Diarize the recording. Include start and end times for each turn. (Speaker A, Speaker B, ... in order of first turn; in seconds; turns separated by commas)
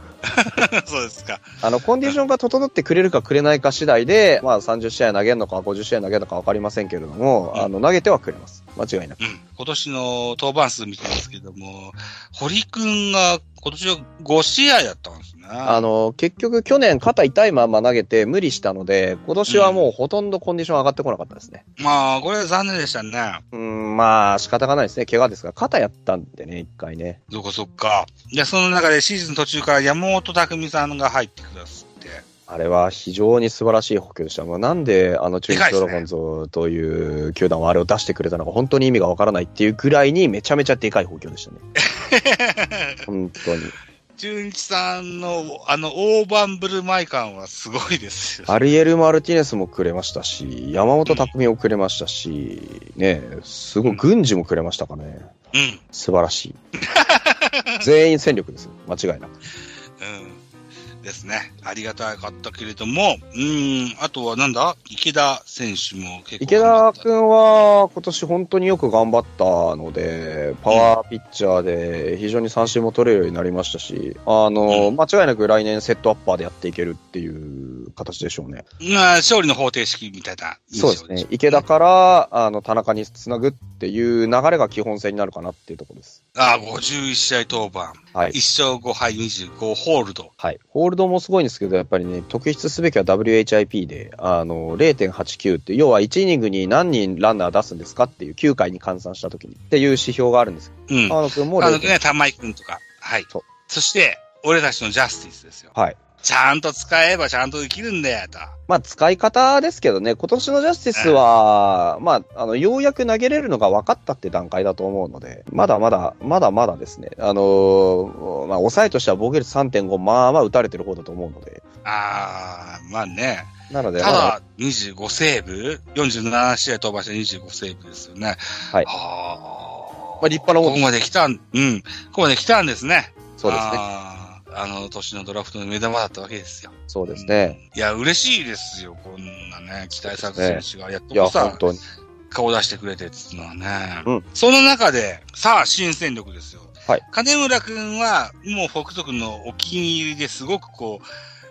Speaker A: 0.2-1.5, Speaker B: 1.6-9.2, Speaker A: 9.2-15.8, Speaker B: 15.6-21.6, Speaker A: 19.5-19.9, Speaker A: 21.8-23.4, Speaker B: 23.5-27.2, Speaker A: 27.3-32.2, Speaker B: 32.5-41.6, Speaker A: 35.5-36.0, Speaker A: 41.8-43.0, Speaker B: 43.0-43.7, Speaker A: 44.2-48.7, Speaker B: 48.5-55.3, Speaker A: 51.0-51.3, Speaker A: 55.5-55.8, Speaker B: 55.9-56.5, Speaker A: 56.8-57.9, Speaker B: 57.8-59.3, Speaker A: 60.0-60.4, Speaker A: 61.0-67.1, Speaker B: 66.4-78.6, Speaker A: 78.8-81.6, Speaker B: 80.8-86.2, Speaker A: 86.4-90.3, Speaker B: 90.4-101.9, Speaker A: 100.9-108.5, Speaker B: 108.7-121.6, Speaker A: 110.9-111.2, Speaker A: 121.8-141.7, Speaker B: 123.7-124.4, Speaker B: 130.2-130.8, Speaker B: 133.4-133.8, Speaker B: 136.9-137.6, Speaker B: 140.0-141.8, Speaker A: 142.3-151.1